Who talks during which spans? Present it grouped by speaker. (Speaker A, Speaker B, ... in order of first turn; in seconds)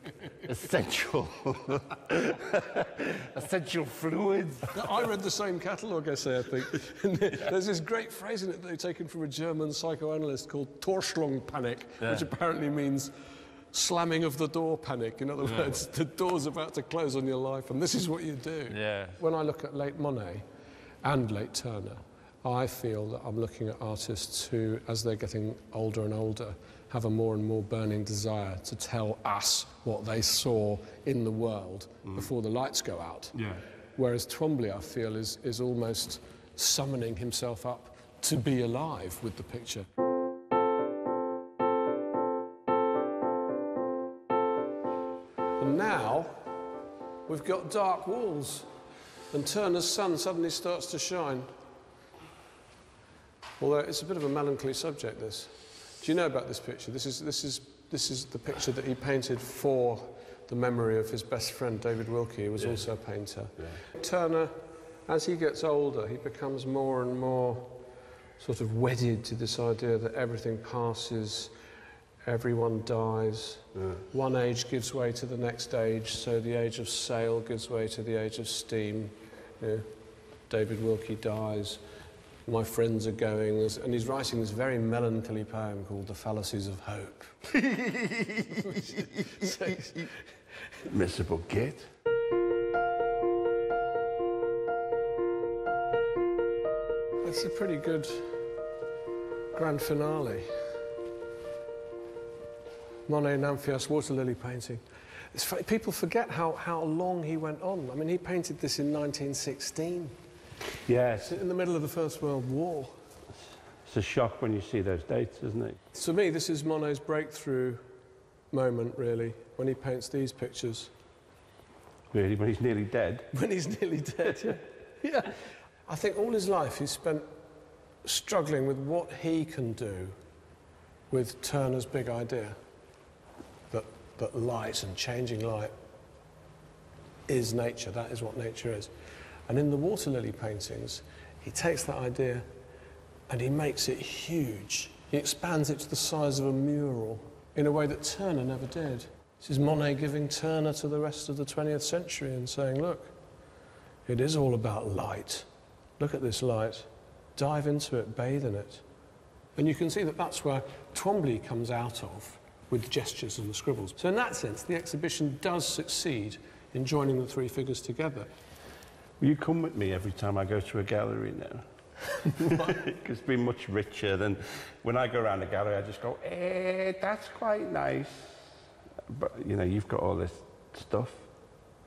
Speaker A: 0.4-4.8, 12.0-12.3, 15.4-15.7, 18.7-19.2, 33.4-33.6, 87.5-88.8, 90.8-91.9, 110.8-111.4, 113.8-115.8, 122.1-123.3, 169.2-171.7, 172.3-178.5, 179.1-181.3
Speaker B: 4.7-13.1, 13.7-20.4, 21.0-33.4, 34.0-39.9, 45.6-46.4, 47.3-48.7, 49.3-51.5, 53.6-64.5, 65.1-67.8, 68.4-71.5, 72.3-79.9, 80.5-81.8, 82.5-87.4, 88.6-90.2, 97.2-98.3, 99.5-100.5, 103.1-104.8, 105.3-110.2, 111.2-112.9, 115.9-117.8, 118.5-120.9, 123.3-127.3, 128.0-130.2, 131.1-132.6, 133.7-135.7, 137.3-138.9, 139.5-142.5, 143.3-153.1, 154.1-155.5, 156.0-158.8, 159.6-168.3, 172.4-172.7